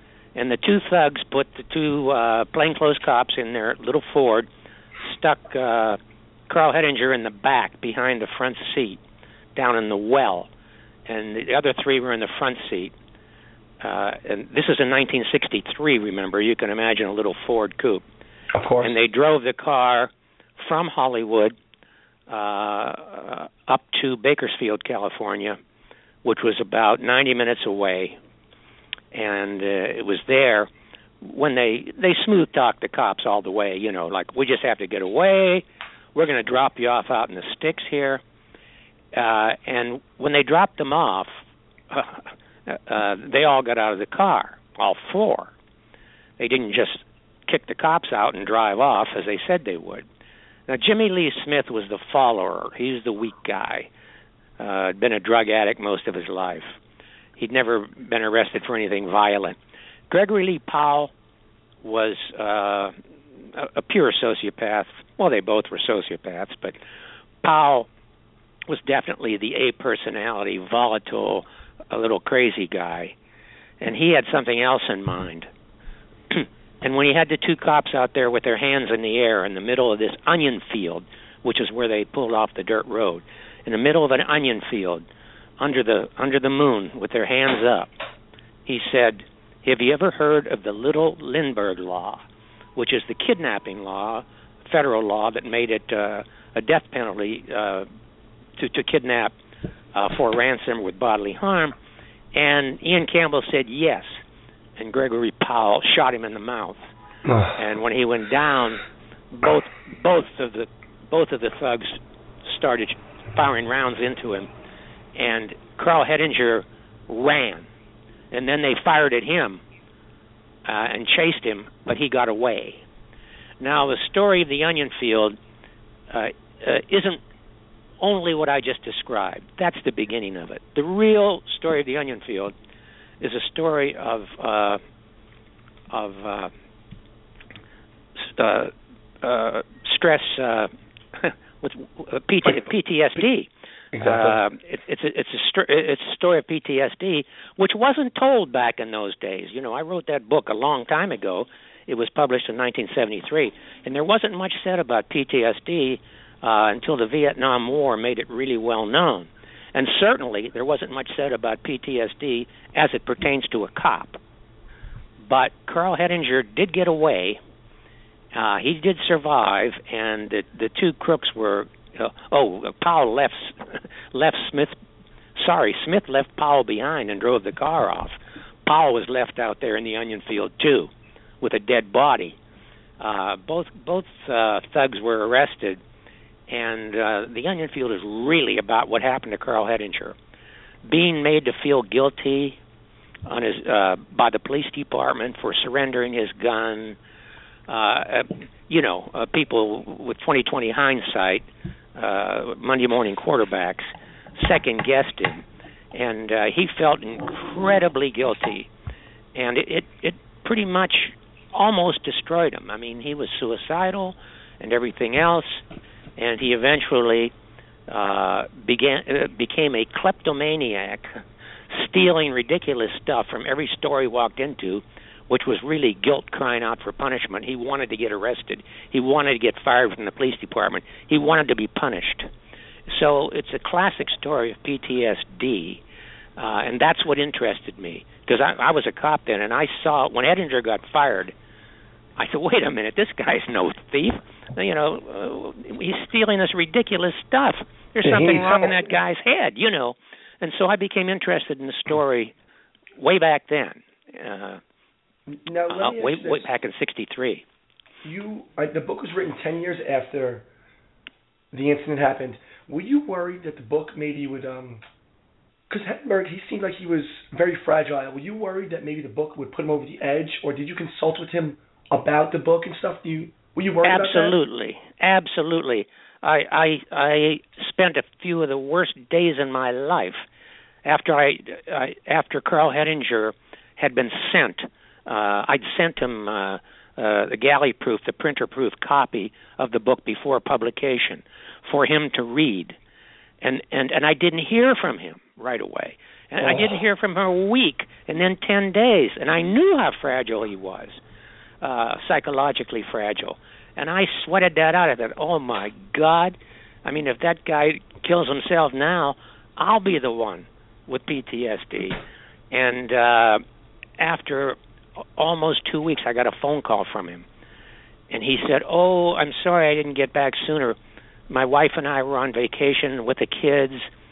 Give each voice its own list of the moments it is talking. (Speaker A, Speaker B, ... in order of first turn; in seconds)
Speaker A: 0.3-4.5, 5.0-9.0, 9.6-10.5, 11.1-12.9, 13.8-18.1, 18.8-21.6, 22.3-25.6, 26.2-28.2, 29.1-30.7, 31.2-38.2, 39.1-41.3, 41.9-45.5, 46.4-50.1, 50.7-53.9, 54.6-56.8, 57.4-59.6, 60.1-61.1, 61.8-63.0, 63.5-66.8, 67.4-67.9, 68.7-73.2, 73.8-75.5, 76.3-85.1, 85.6-87.9, 88.7-92.2, 92.8-97.9, 98.6-99.3, 99.9-101.8, 102.3-104.2, 104.8-106.9, 107.5-114.5, 115.2-117.7, 118.3-119.6, 120.7-122.8, 123.6-125.4, 126.1-127.2, 128.0-132.5, 133.2-134.8, 135.9-136.5, 138.2-164.2, 165.2-167.4, 168.3-174.8, 175.4-182.4, 183.0-185.8, 186.5-190.2, 190.8-192.6, 193.3-197.0, 197.7-208.7, 209.3-215.6, 216.2-217.3, 217.9-221.2, 221.7-232.3, 232.9-235.8, 236.4-241.3, 242.2-252.3, 253.0-254.6, 255.7-257.4, 273.9-280.2, 280.9-292.8, 293.4-301.0, 301.6-312.0, 312.5-313.4, 314.0-314.6, 315.2-317.3, 318.1-320.8, 321.3-323.9
Speaker B: 18.5-18.9, 107.3-107.5, 143.9-144.4, 248.0-248.9, 255.3-256.5, 258.0-260.5, 261.5-264.8, 265.7-274.4, 296.4-296.8